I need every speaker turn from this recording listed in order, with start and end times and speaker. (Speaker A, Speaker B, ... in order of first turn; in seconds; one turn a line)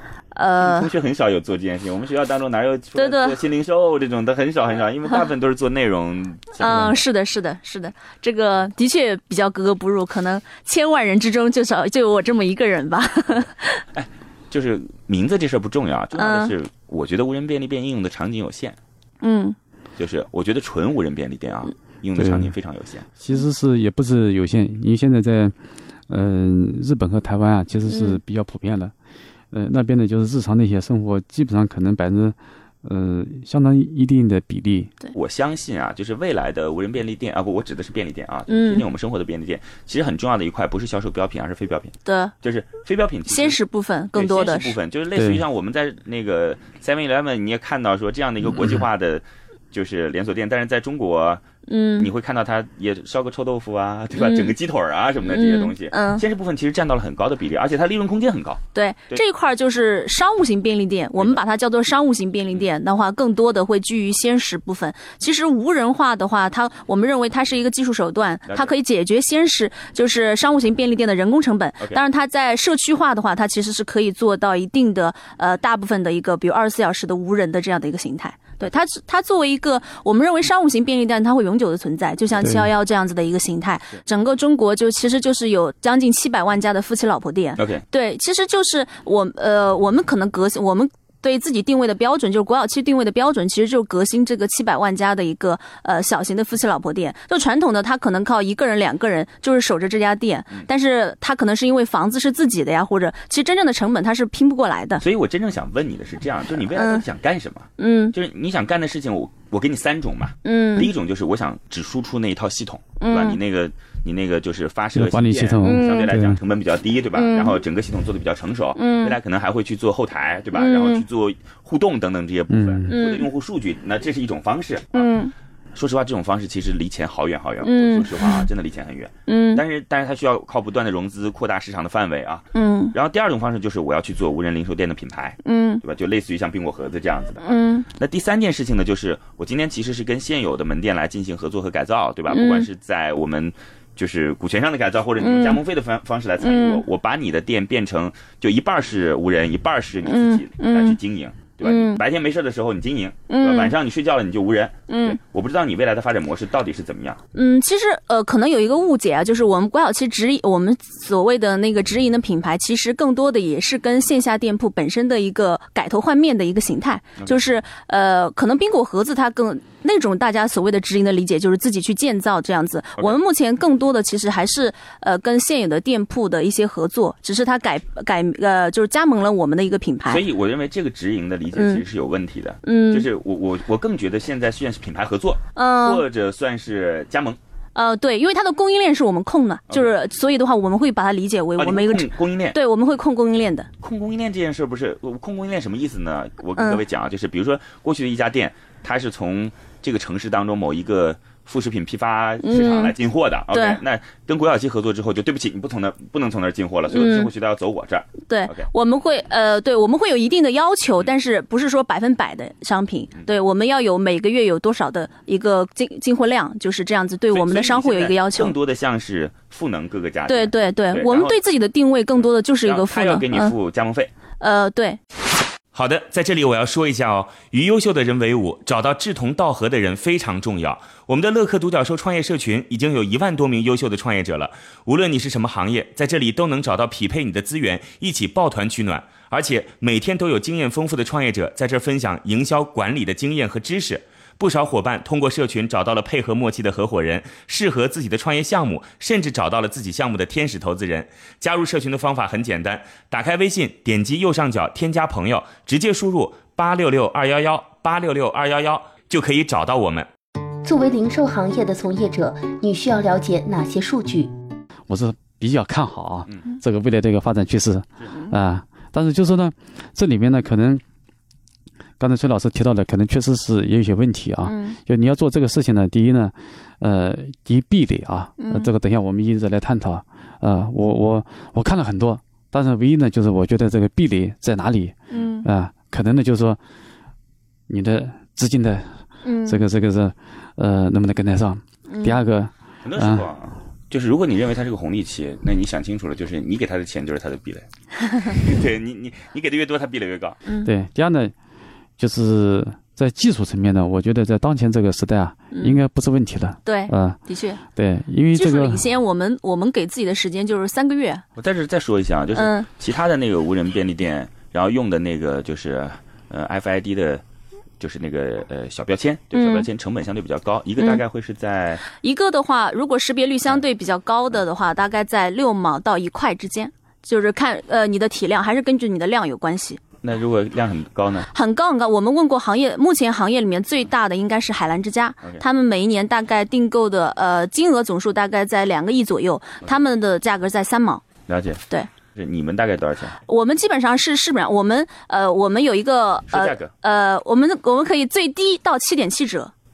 Speaker A: 0.3-0.9
Speaker B: 0.6-7.0
Speaker A: 3.0-3.4
Speaker A: 6.6-13.8
Speaker B: 13.9-18.8
Speaker A: 16.1-16.5
Speaker A: 19.2-19.6
Speaker B: 20.0-23.1
Speaker C: 22.1-22.5
Speaker C: 23.2-25.5
Speaker C: 26.1-28.9
Speaker A: 27.9-28.2
Speaker C: 29.5-34.9
Speaker B: 35.1-43.6
Speaker A: 38.5-38.8
Speaker A: 42.0-42.3
Speaker A: 43.3-44.8
Speaker B: 44.1-51.4
Speaker C: 45.1-45.4
Speaker A: 51.7-52.1
Speaker B: 52.0-59.2
Speaker A: 54.2-54.5
Speaker A: 55.3-56.2
Speaker A: 58.7-105.0
Speaker B: 68.5-68.7
Speaker C: 82.4-82.7
Speaker B: 87.6-87.8
Speaker B: 105.0-125.1
Speaker A: 106.7-107.0
Speaker A: 107.8-108.1
Speaker A: 110.4-110.9
Speaker A: 113.0-113.4
Speaker C: 114.9-116.4
Speaker A: 115.6-116.1
Speaker A: 117.1-117.6
Speaker A: 118.8-119.1
Speaker A: 120.5-121.0
Speaker C: 122.5-122.9
Speaker A: 122.9-123.3
Speaker A: 124.9-125.3
Speaker B: 125.7-157.2
Speaker A: 127.6-128.4
Speaker A: 129.3-129.6
Speaker A: 132.5-132.9
Speaker A: 135.4-135.8
Speaker A: 137.4-137.8
Speaker A: 142.3-142.6
Speaker A: 145.2-145.6
Speaker A: 146.4-146.8
Speaker A: 150.1-151.0
Speaker A: 151.6-152.0
Speaker A: 153.3-153.7
Speaker A: 154.9-155.2
Speaker A: 157.3-180.2
Speaker B: 180.1-187.4
Speaker A: 181.6-181.8
Speaker A: 182.6-183.0
Speaker A: 185.6-186.0
Speaker A: 187.7-193.7
Speaker B: 191.6-192.6
Speaker B: 193.8-208.7
Speaker A: 196.6-196.8
Speaker A: 202.4-202.9
Speaker A: 203.5-203.8
Speaker A: 206.9-207.3
Speaker A: 208.3-218.5
Speaker B: 217.3-221.4
Speaker A: 220.3-223.5
Speaker B: 222.6-224.1
Speaker A: 224.4-225.0
Speaker D: 225.7-260.1
Speaker E: 260.6-264.3
Speaker C: 264.9-270.8
Speaker C: 272.0-286.6
Speaker A: 274.4-274.8
Speaker A: 278.4-278.7
Speaker A: 285.1-285.4
Speaker C: 287.7-293.3
Speaker A: 289.2-289.6
Speaker A: 291.9-292.2
Speaker B: 292.8-300.4
Speaker C: 300.6-301.3
Speaker C: 302.0-308.9
Speaker A: 305.5-305.8
Speaker A: 306.6-307.6
Speaker A: 308.3-311.2
Speaker B: 311.4-317.2
Speaker A: 312.3-312.7
Speaker B: 317.8-321.8
Speaker A: 319.3-319.6
Speaker A: 321.9-329.8
Speaker B: 330.0-331.3
Speaker A: 331.3-341.0
Speaker B: 341.3-341.6
Speaker B: 342.1-343.2
Speaker A: 343.3-349.5
Speaker B: 346.3-346.7